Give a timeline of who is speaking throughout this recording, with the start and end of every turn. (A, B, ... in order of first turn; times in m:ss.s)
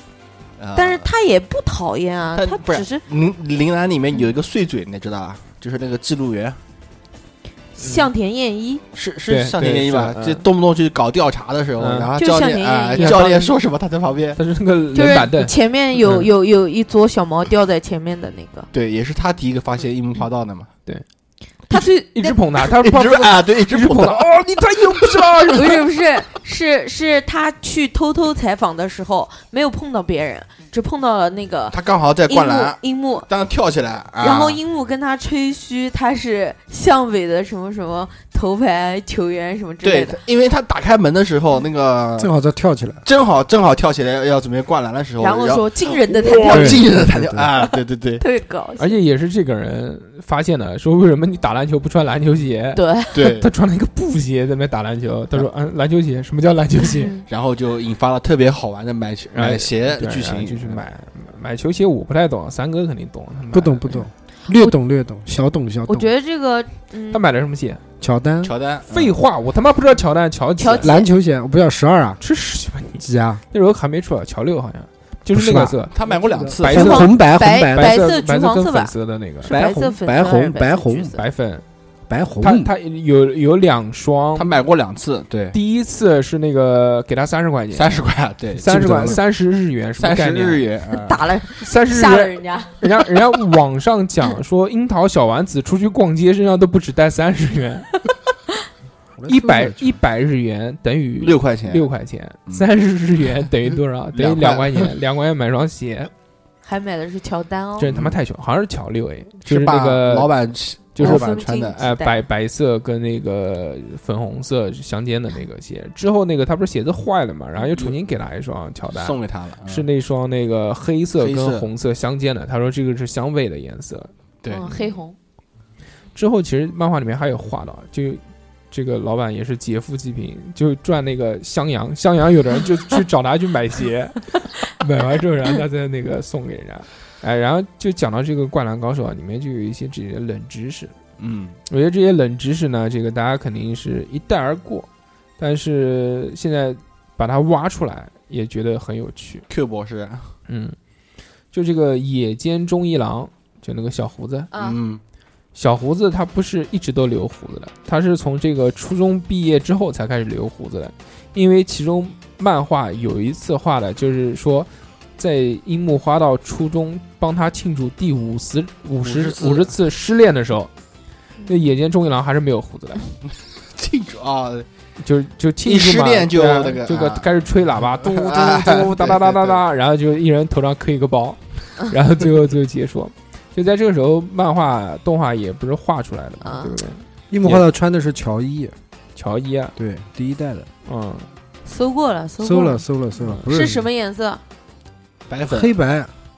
0:00.6-0:01.1 A
0:00.7-0:03.0 B
0:02.4-0:06.6 A
0:07.8-0:08.8 B
0:07.8-0:08.1 C
0:08.9-0:14.4 A
0:09.3-0:10.4 C
0:11.8-0:12.1 C
0:12.2-0:13.4 B
0:13.0-0:13.5 C
0:14.4-0:16.3 C
0:15.0-0:18.7 B
0:18.7-0:20.7 A
0:21.7-0:25.9 C
0:21.7-0:22.4 B
0:22.6-0:24.3 A
0:24.9-0:25.5 A
0:25.6-0:33.3 B
0:31.7-0:34.6 A
0:34.2-0:40.2 B
0:39.8-0:42.3 A
0:42.2-0:43.0 D
0:43.0-0:48.2 A
0:45.2-0:46.9 B
0:46.5-0:47.5 D
0:47.6-0:49.0 B
0:48.8-0:57.1 C
0:52.7-0:53.4 B
0:53.1-0:53.5 A
0:56.8-0:57.2 B
0:57.3-1:00.8 A
0:59.3-1:04.0 C
1:03.5-1:06.1 D
1:04.5-1:04.7 B
1:05.9-1:07.2 B
1:07.1-1:07.8 C
1:08.0-1:08.5 D
1:08.4-1:09.2 A
1:08.9-1:10.9 C
1:10.6-1:11.1 B
1:10.8-1:12.2 D
1:12.2-1:15.9 C
1:13.0-1:13.4 D
1:15.3-1:18.0 D
1:15.9-1:17.0 A
1:16.6-1:17.1 C
1:16.7-1:21.2 B
1:17.7-1:19.5 C
1:19.4-1:21.1 D
1:21.1-1:21.6 C
1:22.1-1:22.7 D
1:22.4-1:24.5 C
1:24.4-1:25.6 A
1:25.5-1:28.0 C
1:27.7-1:29.2 A
1:28.6-1:30.6 C
1:28.6-1:29.2 D
1:30.0-1:31.2 A
1:30.9-1:33.0 B
1:31.6-1:37.9 C
1:39.2-1:39.9 D
1:39.3-1:46.1 C
1:41.2-1:41.9 A
1:44.1-1:44.9 A
1:46.6-1:47.9 B
1:47.8-1:50.3 C
1:47.9-1:48.2 A
1:49.4-1:51.8 A
1:51.0-2:04.1 C
1:51.0-1:52.2 B
1:58.9-1:59.8 A
2:01.2-2:01.7 A
2:04.5-2:05.2 B
2:06.1-2:21.0 C
2:21.2-2:21.6 A
2:21.7-2:29.4 C
2:29.5-2:30.3 A
2:30.5-2:30.8 C
2:31.5-2:34.5 C
2:34.5-2:34.8 B
2:34.6-2:35.0 A
2:35.6-2:50.7 C
2:49.0-2:49.7 A
2:51.5-2:53.1 C
2:53.7-2:54.7 A
2:55.0-3:07.6 C
2:55.6-2:57.3 A
2:58.0-2:59.6 A
3:06.4-3:06.7 B
3:07.3-3:08.8 D
3:09.1-3:09.7 C
3:09.8-3:10.7 D
3:10.9-3:11.3 C
3:11.6-3:12.8 B
3:12.4-3:13.9 D
3:13.4-3:14.4 B
3:15.3-3:15.7 A
3:15.5-3:16.1 D